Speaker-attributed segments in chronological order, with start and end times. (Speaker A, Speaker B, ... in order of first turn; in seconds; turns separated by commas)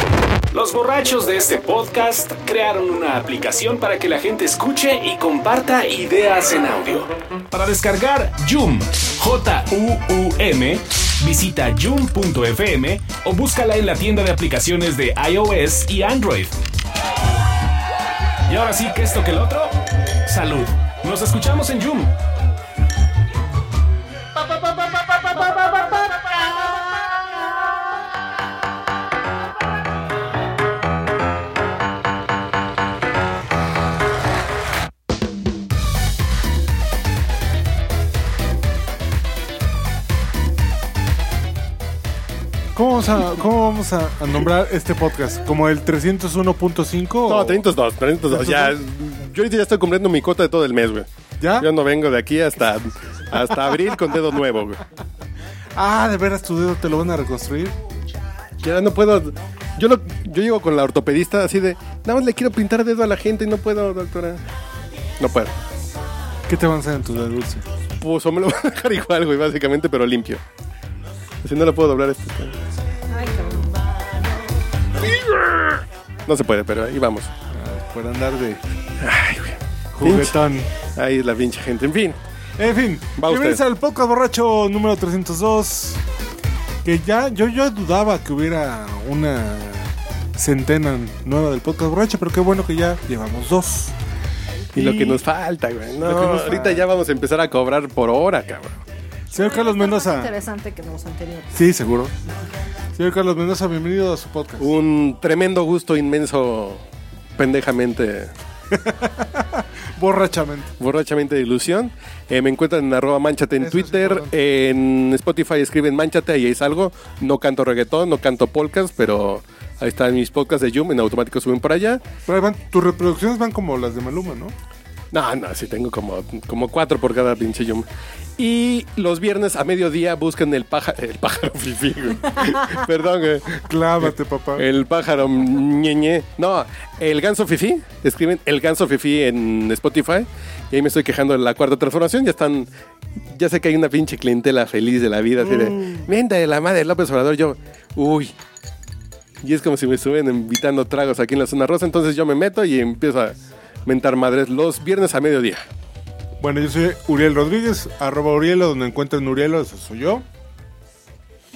Speaker A: 0.5-16.6, Speaker A: 18.5-19.7, Speaker A: 20.2-22.1, Speaker A: 25.2-25.6, Speaker B: 42.7-47.6, Speaker C: 47.2-54.8, Speaker B: 48.3-48.8, Speaker B: 51.4-51.7, Speaker B: 55.7-57.8, Speaker C: 58.6-64.4, Speaker C: 65.2-65.5, Speaker B: 66.5-67.7, Speaker C: 68.0-70.4, Speaker C: 71.4-72.5, Speaker D: 73.1-73.9, Speaker C: 75.0-77.3, Speaker B: 77.5-78.6, Speaker C: 79.0-82.2, Speaker B: 79.9-80.7, Speaker B: 82.6-86.0, Speaker C: 83.2-83.6, Speaker B: 86.8-93.9, Speaker B: 94.7-95.2, Speaker C: 94.7-98.8, Speaker B: 96.0-96.8, Speaker B: 99.3-100.3, Speaker D: 99.3-101.6, Speaker B: 101.5-102.1, Speaker B: 102.9-104.7, Speaker C: 104.6-106.8, Speaker C: 107.3-108.3, Speaker B: 108.7-110.7, Speaker C: 110.8-122.1, Speaker B: 113.6-114.3, Speaker B: 122.2-124.5, Speaker C: 125.1-127.8, Speaker C: 128.4-142.7, Speaker B: 133.7-134.7, Speaker C: 143.3-148.3, Speaker C: 149.4-155.6, Speaker B: 156.4-160.2